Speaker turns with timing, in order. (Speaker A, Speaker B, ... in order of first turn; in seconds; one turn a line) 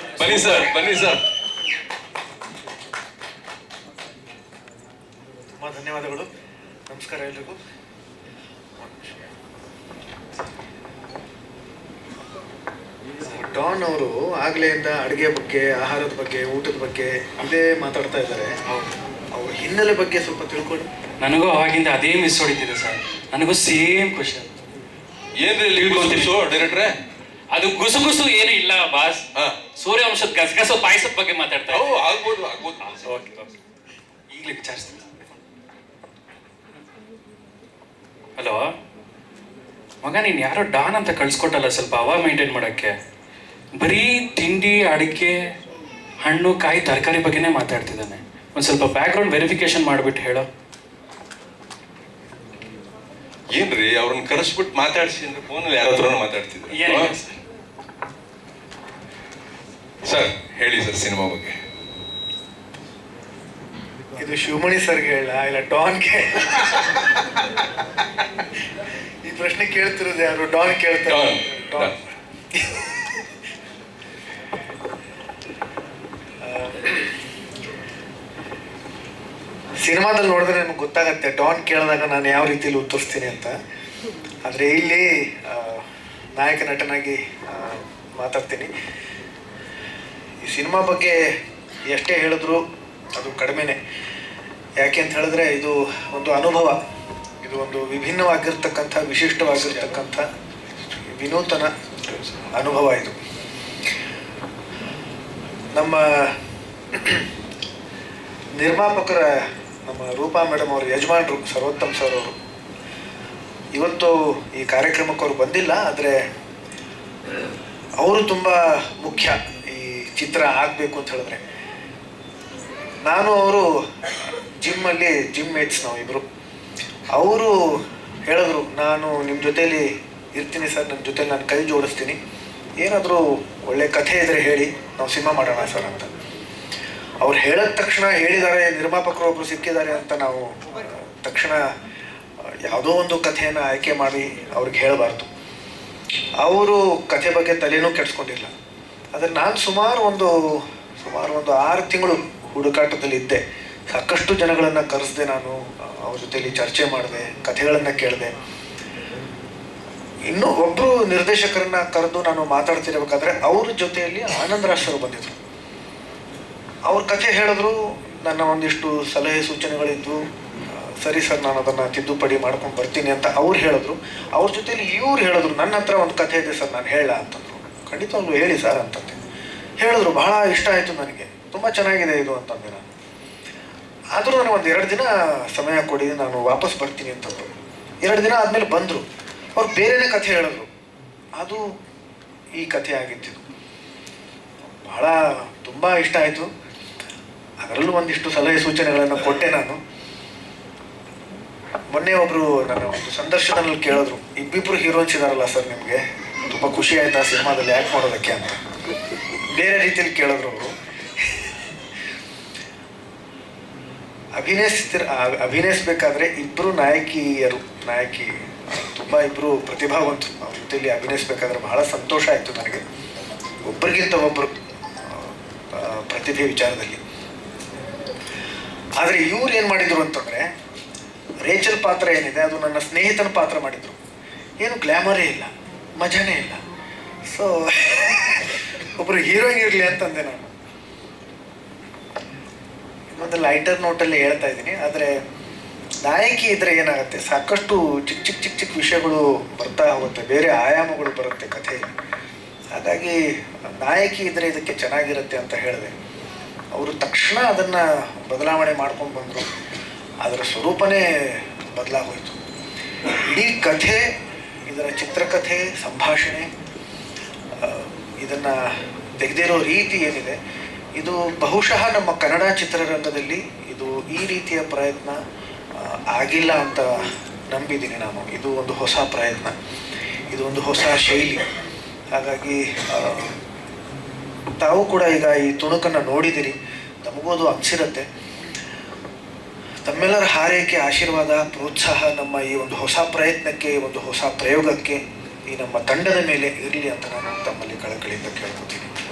Speaker A: 0.2-0.9
Speaker B: 0.2-1.2
Speaker C: 5.5-6.3
Speaker C: 6.9-7.6
Speaker C: 8.8-9.3
Speaker C: 13.3-18.5
Speaker A: 18.7-18.9
Speaker C: 19.3-20.9
Speaker A: 21.2-24.5
Speaker B: 25.4-26.9
Speaker A: 25.6-26.6
Speaker A: 27.5-32.2
Speaker B: 29.3-29.7
Speaker B: 31.7-33.1
Speaker A: 32.8-33.5
Speaker A: 34.3-35.0
Speaker A: 38.4-38.6
Speaker A: 40.0-43.0
Speaker A: 43.8-45.5
Speaker A: 46.2-50.5
Speaker B: 53.5-57.2
Speaker A: 56.7-57.3
Speaker B: 60.0-61.6
Speaker C: 64.2-67.4
Speaker C: 69.2-71.9
Speaker B: 71.1-71.9
Speaker C: 72.5-73.1
Speaker C: 76.4-77.0
Speaker C: 79.8-83.5
Speaker C: 84.5-88.7
Speaker C: 90.4-91.2
Speaker C: 91.9-92.6
Speaker C: 93.1-93.8
Speaker C: 94.8-96.8
Speaker C: 97.4-100.2
Speaker C: 101.1-103.2
Speaker C: 105.7-106.4
Speaker C: 106.9-107.3
Speaker C: 108.6-112.3
Speaker C: 113.7-116.2
Speaker C: 118.0-121.4
Speaker C: 123.0-126.2
Speaker C: 127.1-132.2
Speaker C: 132.8-136.1
Speaker C: 137.2-141.6
Speaker C: 142.4-145.3
Speaker C: 146.4-148.5
Speaker C: 149.1-158.3
Speaker C: 160.3-165.4
Speaker C: 166.8-179.2
Speaker C: 179.8-182.8
Speaker C: 184.1-187.5
Speaker C: 188.0-189.0
Speaker C: 189.6-190.7
Speaker C: 191.4-191.6
Speaker C: 192.6-193.4
Speaker C: 194.7-196.5
Speaker C: 197.6-199.8
Speaker C: 201.9-208.6
Speaker C: 209.5-211.5
Speaker C: 214.3-222.8
Speaker C: 223.7-227.0
Speaker C: 229.0-230.5
Speaker C: 231.4-234.0
Speaker C: 234.6-236.6
Speaker C: 237.3-240.5
Speaker C: 243.1-245.1
Speaker C: 246.0-251.9
Speaker C: 252.7-255.9
Speaker C: 256.7-259.5
Speaker C: 260.2-262.4
Speaker C: 263.1-264.0
Speaker C: 264.7-266.5
Speaker C: 267.6-268.6
Speaker C: 269.2-270.4
Speaker C: 270.9-275.2
Speaker C: 275.8-279.5
Speaker C: 280.3-281.5
Speaker C: 282.1-283.4
Speaker C: 284.6-288.1
Speaker C: 289.8-298.9